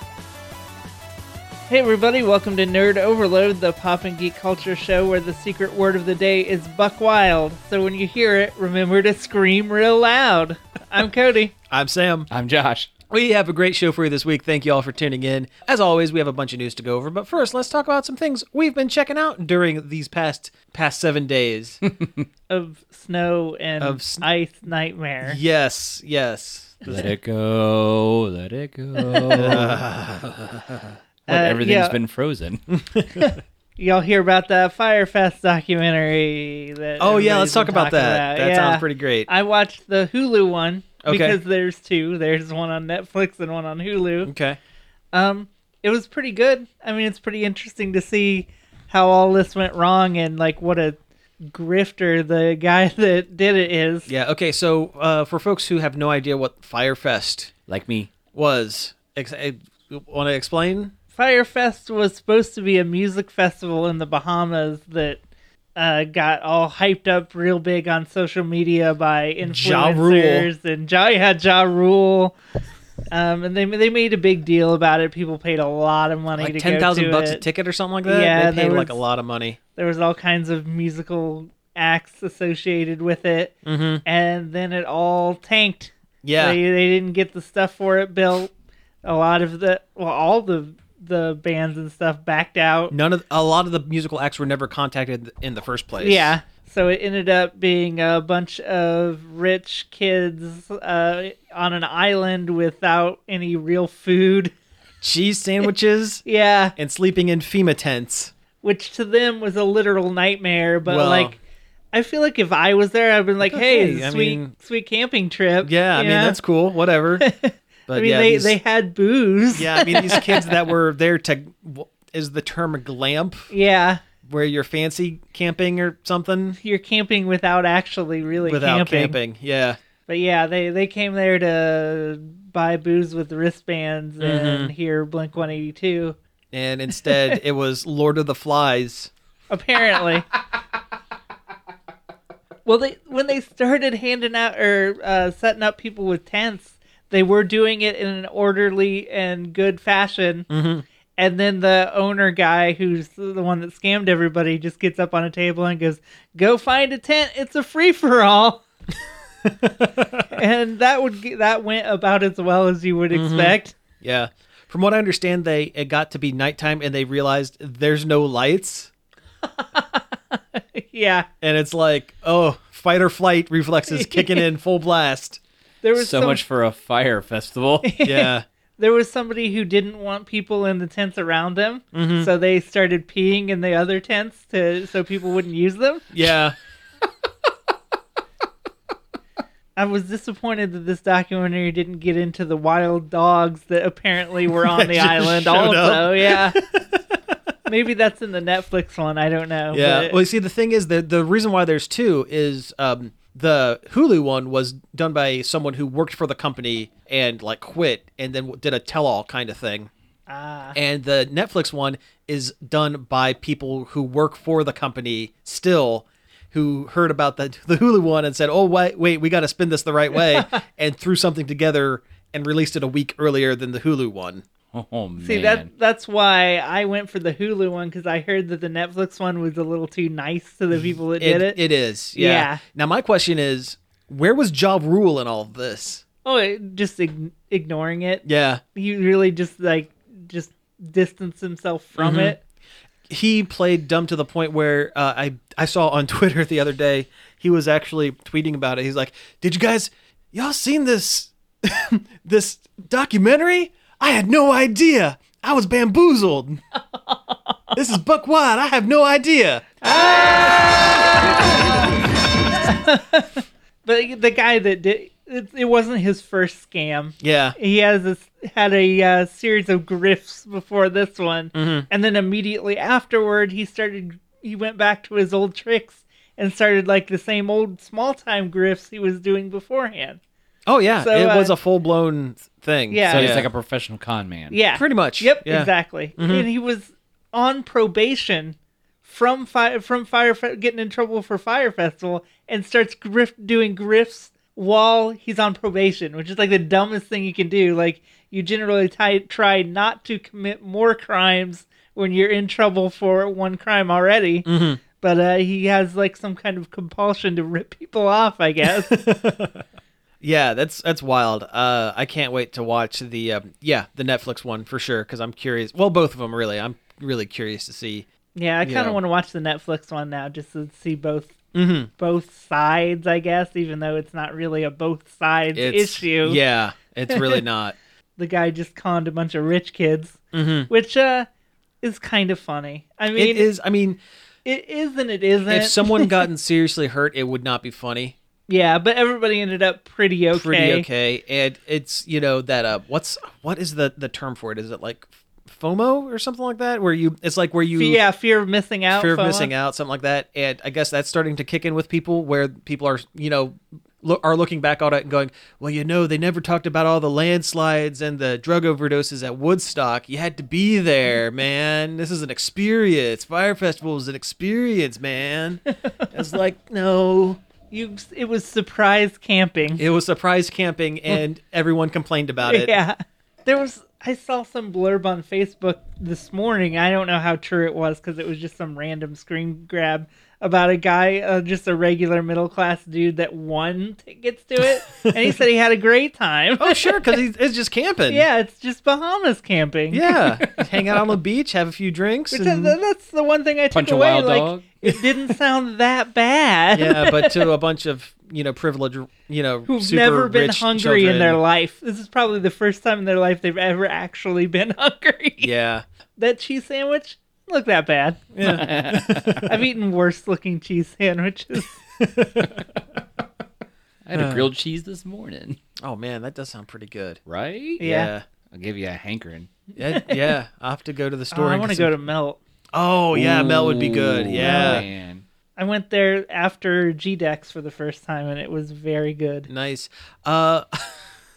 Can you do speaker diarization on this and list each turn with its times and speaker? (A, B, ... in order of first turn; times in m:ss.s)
0:01.7-0:11.5 A
0:11.7-0:12.3 B
0:12.3-0:12.9 C
0:13.1-0:21.8 B
0:22.0-0:22.2 C
0:22.5-0:25.4 A
0:23.8-0:24.2 B
0:25.2-0:27.1 B
0:26.8-0:29.8 C
0:29.0-0:29.6 A
0:29.3-0:31.0 B
0:31.3-0:32.6 C
0:31.3-0:32.0 A
0:32.7-0:33.3 B
0:33.2-0:44.3 A
0:37.0-0:39.3 B
0:41.0-0:41.4 B
0:44.2-0:44.6 B
0:45.1-0:54.1 A
0:54.1-0:57.5 B
0:57.7-0:58.1 C
0:58.3-1:00.9 B
1:01.1-1:05.2 A
1:05.8-1:12.3 A
1:09.4-1:10.5 B
1:13.1-1:17.4 A
1:16.4-1:19.6 B
1:18.0-1:19.0 A
1:19.8-1:28.5 A
1:23.6-1:24.0 B
1:26.2-1:26.6 B
1:29.0-1:32.9 A
1:32.9-1:36.3 B
1:36.0-1:44.5 A
1:45.0-1:46.2 B
1:46.2-1:46.7 A
1:46.8-1:48.3 B
1:48.6-1:51.4 A
1:50.8-1:51.3 B
1:51.9-1:56.4 A
1:53.4-1:54.5 B
1:55.6-1:57.2 B
1:57.2-2:00.6 A
1:57.9-1:58.6 B
1:59.5-2:03.5 B
2:03.5-2:04.0 A
2:04.2-2:06.6 B
2:06.6-2:09.2 A
2:08.4-2:09.8 B
2:10.1-2:16.2 A
2:14.2-2:14.7 B
2:16.5-2:19.1 B
2:17.1-2:17.4 A
2:19.5-2:20.3 A
2:22.6-2:30.5 A
2:30.5-2:30.8 B
2:31.2-2:38.6 A
2:39.4-2:40.2 B
2:40.2-2:43.8 A
2:43.1-2:48.9 B
2:49.4-2:51.3 A
2:51.4-2:55.4 B
2:53.9-2:54.5 A
2:55.8-2:56.4 A
2:56.0-2:57.9 C
2:57.8-3:06.1 A
2:58.0-2:58.4 B
3:01.9-3:02.3 B
3:06.1-3:06.6 B
3:09.8-3:16.6 A
3:14.5-3:17.2 B
3:17.6-3:20.2 A
3:19.7-3:29.9 B
3:30.3-3:30.8 A
3:30.7-3:44.4 B
3:40.3-3:40.6 A
3:44.7-3:45.7 C
3:45.2-3:51.6 A
3:50.8-3:56.0 B
3:52.1-3:52.6 A
3:56.2-3:58.2 A
3:58.2-3:58.6 B
3:58.7-4:02.4 A
4:02.0-4:02.4 B
4:03.1-4:16.6 B
4:17.1-4:17.5 A
4:17.7-4:19.6 B
4:19.8-4:21.0 A
4:22.6-4:40.2 A
4:27.2-4:27.6 B
4:31.5-4:31.9 B
4:40.6-4:43.5 B
4:41.0-4:41.5 A
4:42.9-4:43.4 A
4:43.1-4:44.6 C
4:44.5-5:08.9 A
4:44.7-4:46.5 B
5:04.4-5:04.8 B
5:08.9-5:09.6 B
5:10.2-5:18.1 B
5:18.3-5:21.4 A
5:18.6-5:19.0 B
5:21.5-5:21.9 B
5:22.0-5:26.4 A
5:25.5-5:27.8 B
5:27.1-5:27.4 A
5:28.2-5:31.3 A
5:30.3-5:30.7 B
5:31.8-5:33.5 A
5:33.1-5:34.0 B
5:34.4-5:36.1 A
5:35.5-5:38.1 B
5:38.5-5:40.9 A
5:40.3-5:48.0 B
5:47.7-5:49.5 A
5:48.9-6:07.4 B
6:07.7-6:09.8 A
6:09.8-6:12.7 B
6:12.4-6:27.1 A
6:25.0-6:25.3 B
6:26.6-6:28.3 B
6:28.1-6:30.2 A
6:29.9-6:32.8 B
6:32.3-6:37.5 A
6:33.7-6:34.7 C
6:36.7-6:41.4 B
6:39.7-6:45.5 A
6:45.4-6:45.8 B
6:46.2-6:48.2 A
6:48.3-6:49.5 B
6:48.4-6:49.5 C
6:49.4-6:51.8 A
6:52.0-6:52.6 B
6:54.0-6:55.6 C
6:54.1-6:54.5 B
6:55.8-6:57.2 B
6:57.3-6:57.8 C
6:57.8-6:58.1 A
6:57.8-6:58.2 B
6:58.5-6:59.5 C
6:59.8-7:01.9 B
7:01.3-7:02.4 A
7:02.7-7:04.8 B
7:03.1-7:05.2 C
7:04.4-7:04.8 A
7:05.6-7:09.5 A
7:09.5-7:11.0 B